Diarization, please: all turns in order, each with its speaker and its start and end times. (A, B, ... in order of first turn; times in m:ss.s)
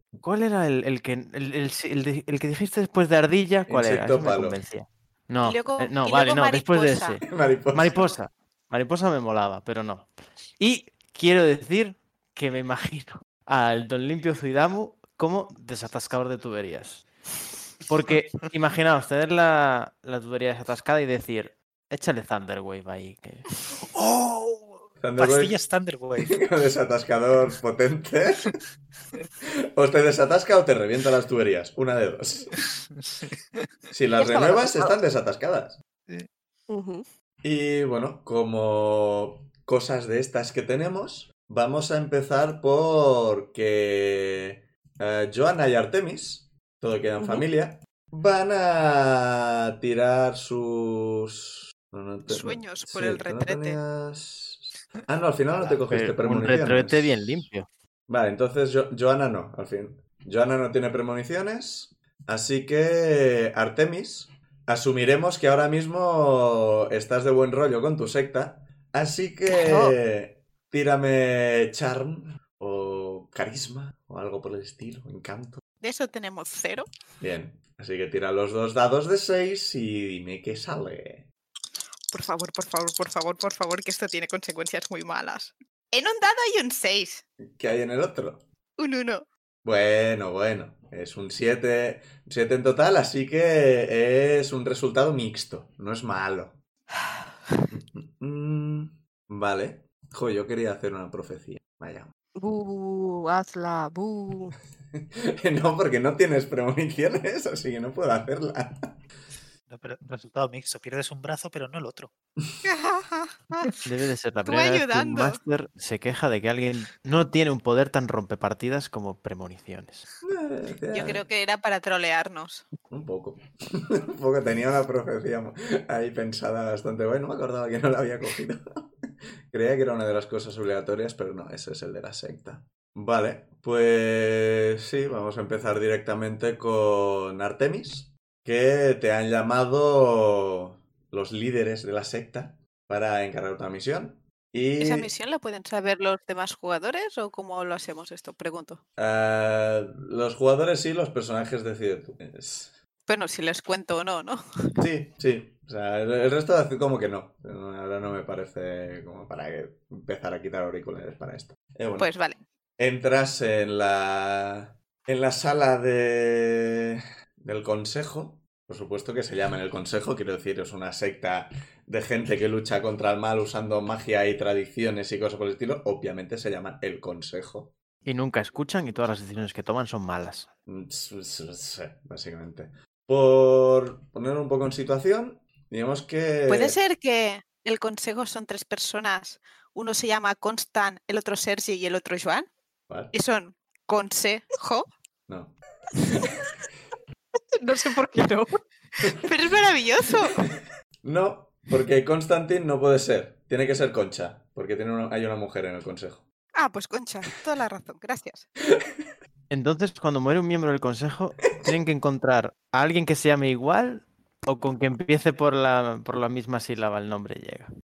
0:00.2-0:17.1 A
0:03.7-0:04.6 B
0:05.4-0:07.2 C
0:07.3-0:08.2 B
0:17.9-0:23.5 A
0:23.8-0:26.4 D
0:25.0-0:25.6 B
0:26.2-0:28.5 B
0:29.7-0:32.5 B
0:33.1-0:33.4 D
0:33.9-0:35.8 B
0:34.2-0:35.0 E
0:36.7-0:37.0 E
0:37.4-0:57.5 B
0:47.2-0:47.4 E
0:52.3-0:53.8 C
0:55.9-0:57.7 A
0:58.1-1:15.6 B
1:15.8-1:16.9 C
1:17.2-1:21.3 B
1:22.1-1:27.2 C
1:27.6-1:28.4 B
1:28.8-1:29.2 C
1:29.6-1:36.6 B
1:37.7-1:42.1 B
1:42.4-1:44.6 E
1:44.9-1:48.9 B
1:49.7-1:52.1 D
1:52.6-1:53.8 C
1:53.8-2:00.1 A
1:54.4-1:55.4 C
2:00.2-2:01.2 B
2:00.9-2:02.7 C
2:02.9-2:08.8 B
2:09.5-2:25.1 B
2:24.8-2:28.8 C
2:29.0-2:32.8 B
2:33.1-2:34.4 C
2:34.8-2:42.1 B
2:42.0-2:42.4 C
2:42.8-2:57.7 B
2:58.0-3:00.5 A
3:00.7-3:06.8 B
3:06.5-3:12.5 C
3:13.1-3:14.9 C
3:15.3-3:15.6 B
3:17.5-3:19.1 E
3:19.2-3:20.4 C
3:21.0-3:26.2 B
3:26.6-3:28.5 C
3:29.5-3:37.7 A